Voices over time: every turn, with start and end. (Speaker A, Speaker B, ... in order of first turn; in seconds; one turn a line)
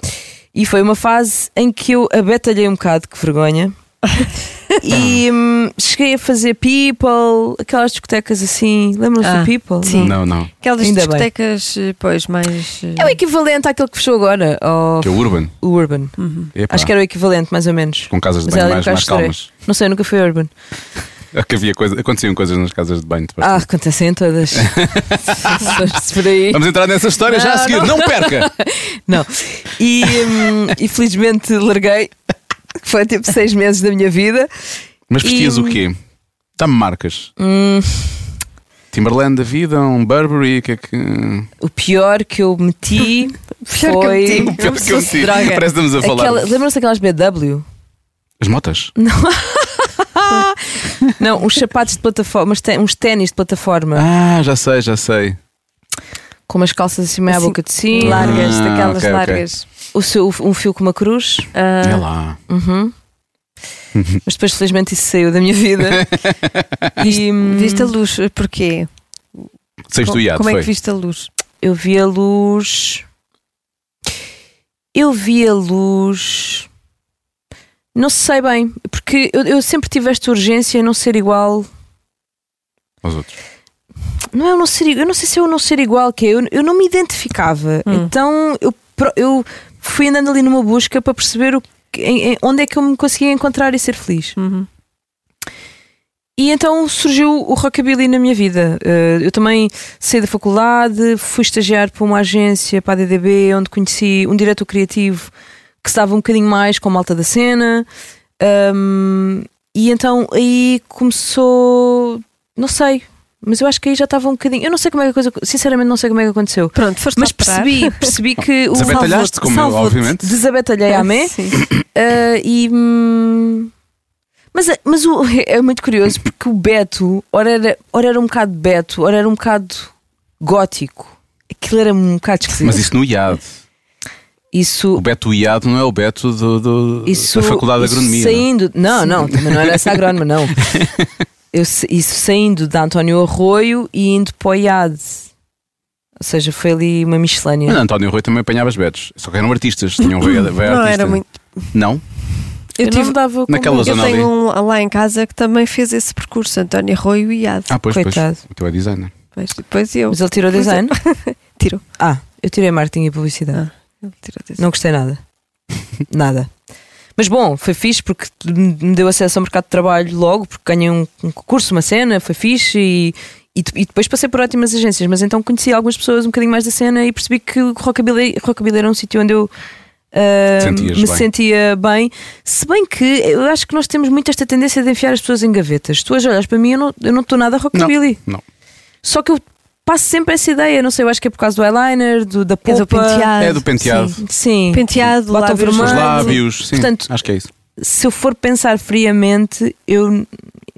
Speaker A: 0.5-3.7
Speaker A: 4.8-10.2
Speaker B: 4.9-5.2
Speaker C: 9.2-13.2
Speaker B: 10.0-10.5
Speaker A: 10.8-11.3
Speaker A: 13.0-20.5
Speaker B: 15.0-15.5
Speaker C: 16.2-16.5
Speaker B: 16.6-16.9
Speaker B: 18.1-19.5
Speaker B: 21.3-23.6
Speaker A: 23.4-26.6
Speaker B: 24.5-25.9
Speaker B: 26.5-28.5
Speaker A: 27.3-32.1
Speaker A: 32.8-34.7
Speaker B: 35.1-36.0
Speaker A: 35.2-35.8
Speaker B: 36.6-37.3
Speaker A: 37.4-38.3
Speaker B: 38.9-41.5
Speaker A: 41.6-47.6
Speaker C: 43.7-45.6
Speaker B: 44.3-46.5
Speaker B: 48.4-48.9
Speaker A: 49.0-54.1
Speaker B: 53.9-55.4
Speaker A: 56.5-58.6
Speaker C: 57.3-59.7
Speaker B: 58.0-59.5
Speaker A: 59.9-61.5
Speaker C: 61.5-62.0
Speaker B: 61.8-62.4
Speaker A: 62.5-62.9
Speaker B: 64.0-64.2
Speaker A: 64.3-66.1
Speaker B: 65.9-66.7
Speaker A: 67.0-67.9
Speaker C: 67.0-68.9
Speaker B: 69.9-70.7
Speaker C: 70.0-71.3
Speaker A: 71.6-73.0
Speaker A: 74.9-76.7
Speaker A: 78.0-81.7
Speaker B: 83.0-83.3
Speaker A: 84.3-94.3
Speaker C: 87.9-88.1
Speaker C: 94.4-94.7
Speaker A: 96.4-105.3
Speaker A: 105.8-107.9
Speaker A: 108.4-123.7
Speaker C: 116.8-118.1
Speaker B: 118.7-120.3
Speaker C: 118.9-119.5
Speaker C: 120.9-121.6
Speaker A: 124.5-132.9
Speaker B: 132.6-133.6
Speaker A: 134.5-135.0
Speaker B: 134.9-138.5
Speaker A: 137.1-140.6
Speaker B: 139.3-139.8
Speaker B: 140.7-141.0
Speaker A: 141.5-145.3
Speaker A: 146.2-147.8
Speaker B: 147.7-152.0
Speaker C: 150.0-151.7
Speaker C: 152.8-153.2
Speaker A: 152.8-154.0
Speaker B: 153.5-154.3
Speaker C: 153.8-157.7
Speaker B: 157.7-159.1
Speaker A: 157.9-158.4
Speaker C: 159.3-161.8
Speaker A: 160.1-160.9
Speaker A: 162.0-163.6
Speaker C: 163.5-164.6
Speaker A: 164.6-165.2
Speaker A: 166.1-166.5
Speaker A: 167.2-179.5
Speaker A: 180.1-188.2
Speaker B: 180.6-181.3
Speaker B: 187.7-188.4
Speaker A: 189.0-193.5
Speaker C: 192.7-194.2
Speaker B: 193.4-194.2
Speaker A: 194.2-197.1
Speaker C: 194.7-196.4
Speaker B: 195.7-197.5
Speaker A: 197.8-200.3